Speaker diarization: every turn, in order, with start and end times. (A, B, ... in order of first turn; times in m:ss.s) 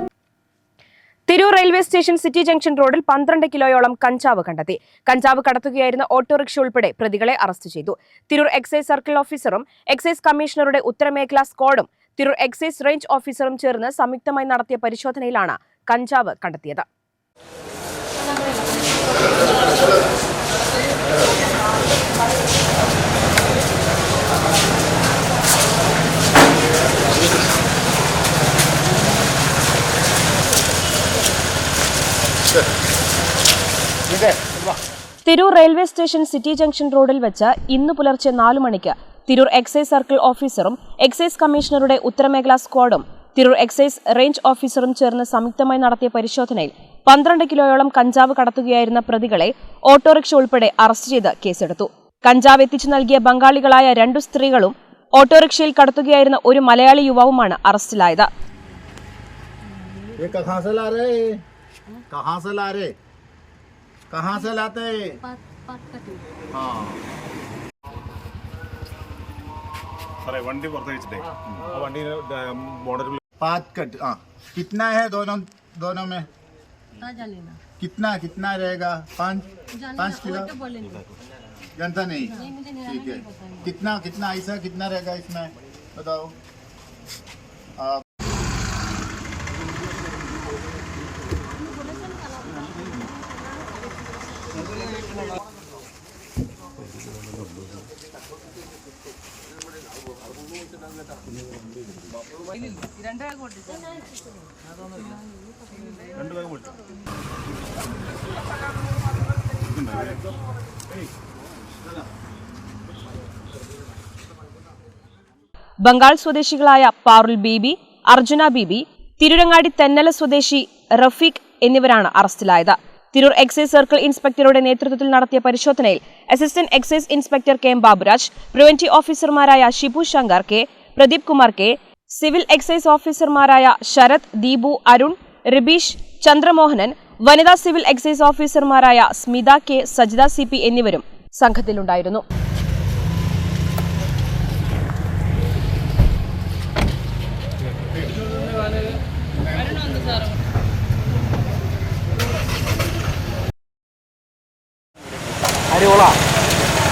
0:01.3-0:16.9 A
0:34.1-0:34.7 B
0:35.2-0:58.3 A
1:00.2-1:01.4 B
1:02.1-1:03.0 B
1:04.1-1:05.2 B
1:06.6-1:06.9 B
1:10.2-1:13.2 C
1:13.4-1:16.3 B
1:17.8-1:20.6 B
1:21.8-1:26.4 B
1:46.2-1:46.7 C
1:55.8-2:22.2 A